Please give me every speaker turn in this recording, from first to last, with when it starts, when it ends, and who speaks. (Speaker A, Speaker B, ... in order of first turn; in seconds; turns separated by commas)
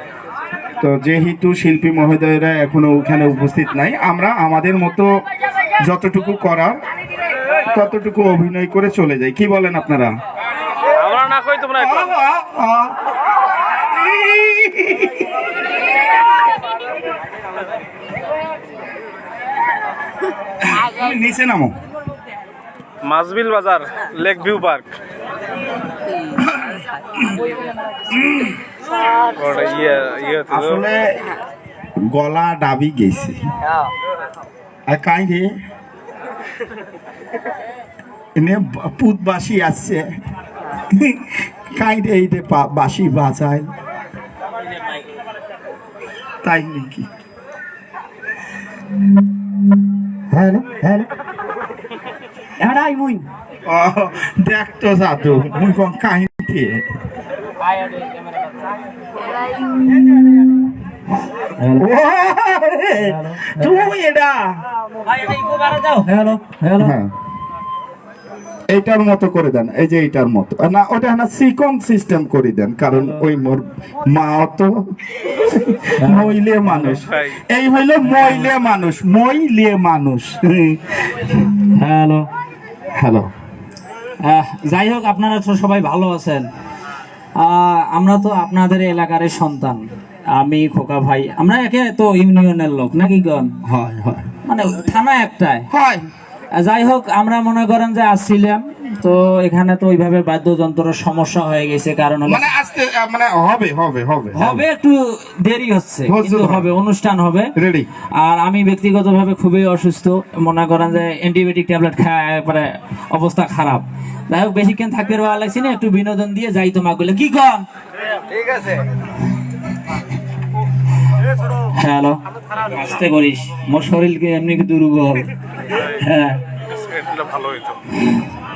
Speaker A: 0.8-5.1, Speaker A: 5.9-6.8, Speaker A: 7.7-10.1, Speaker B: 11.0-11.8, Speaker A: 11.7-13.0, Speaker A: 13.8-15.3, Speaker A: 20.7-21.8, Speaker B: 23.0-24.9, Speaker A: 26.3-26.6, Speaker A: 28.1-28.6, Speaker B: 29.4-30.6, Speaker A: 30.5-31.2, Speaker A: 32.1-33.4, Speaker A: 34.9-35.5, Speaker A: 38.4-40.0, Speaker A: 41.7-43.7, Speaker A: 46.4-47.1, Speaker A: 50.3-51.1, Speaker C: 52.6-53.2, Speaker A: 53.6-56.8, Speaker C: 60.2-60.6, Speaker C: 61.6-61.9, Speaker A: 61.8-64.6, Speaker C: 63.0-63.7, Speaker C: 65.0-66.9, Speaker A: 66.8-67.1, Speaker A: 68.7-74.7, Speaker C: 72.9-73.2, Speaker A: 75.3-81.5, Speaker C: 76.0-77.0, Speaker C: 78.1-78.5, Speaker C: 81.7-82.3, Speaker A: 83.0-83.3, Speaker C: 84.2-86.5, Speaker C: 87.4-93.6, Speaker A: 93.7-94.3, Speaker C: 94.5-95.7, Speaker A: 95.7-96.1, Speaker C: 96.5-102.5, Speaker A: 102.3-104.6, Speaker C: 104.3-107.5, Speaker A: 106.1-106.7, Speaker A: 107.6-107.9, Speaker C: 108.2-117.6, Speaker C: 121.7-122.2, Speaker C: 122.7-126.4, Speaker B: 127.0-127.7, Speaker C: 128.0-128.2